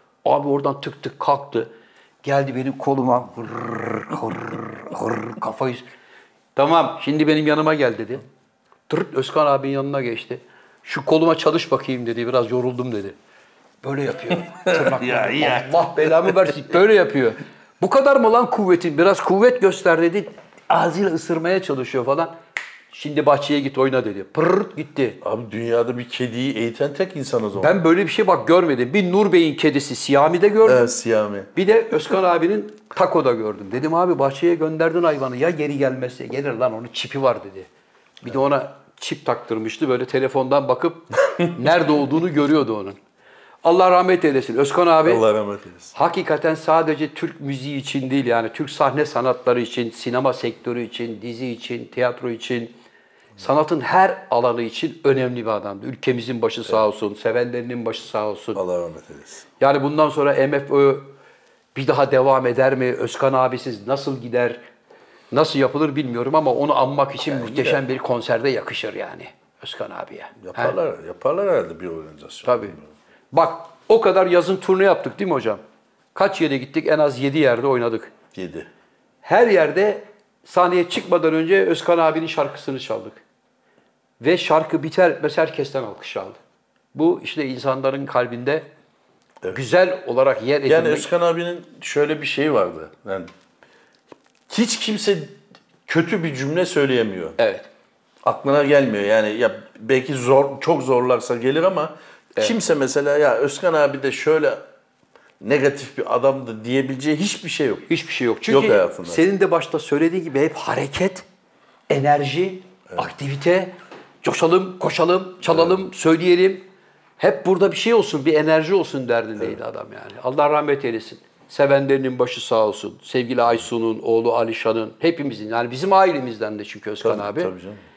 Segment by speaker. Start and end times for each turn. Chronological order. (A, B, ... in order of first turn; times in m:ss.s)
0:00.2-0:01.7 A
0:02.2-0:05.8 A
0:06.5-0:08.2 A
0:08.9-0:13.2 A
0:13.8-0:22.3 A
0:14.3-0:16.6 B
0:22.9-0:25.2 A
0:25.2-0:27.8 B
0:27.6-0:30.9 A
0:30.6-0:31.5 B
0:31.5-0:37.7 A
0:38.2-0:43.0 A
0:43.6-0:45.2 A
0:45.0-0:45.9 B
0:45.9-0:52.7 A
0:53.4-0:58.6 A
0:58.5-0:59.4 B
0:59.6-1:01.1 A
1:01.7-1:04.6 A
1:05.3-1:10.8 A
1:07.3-1:07.8 B
1:10.4-1:12.9 B
1:12.4-1:12.8 A
1:13.3-1:15.6 A
1:16.1-1:18.1 A
1:18.3-1:18.7 B
1:19.2-1:23.2 A
1:24.2-1:26.4 A
1:26.9-1:28.6 A
1:29.5-1:31.1 A
1:30.7-1:33.3 B
1:34.5-1:37.4 B
1:37.4-1:37.7 A
1:38.2-1:44.6 B
1:45.4-1:47.9 B
1:47.9-1:51.2 A
1:48.5-1:49.2 B
1:51.9-1:56.6 A
1:55.5-1:55.7 B
1:57.2-2:07.5 A
2:07.0-2:07.8 B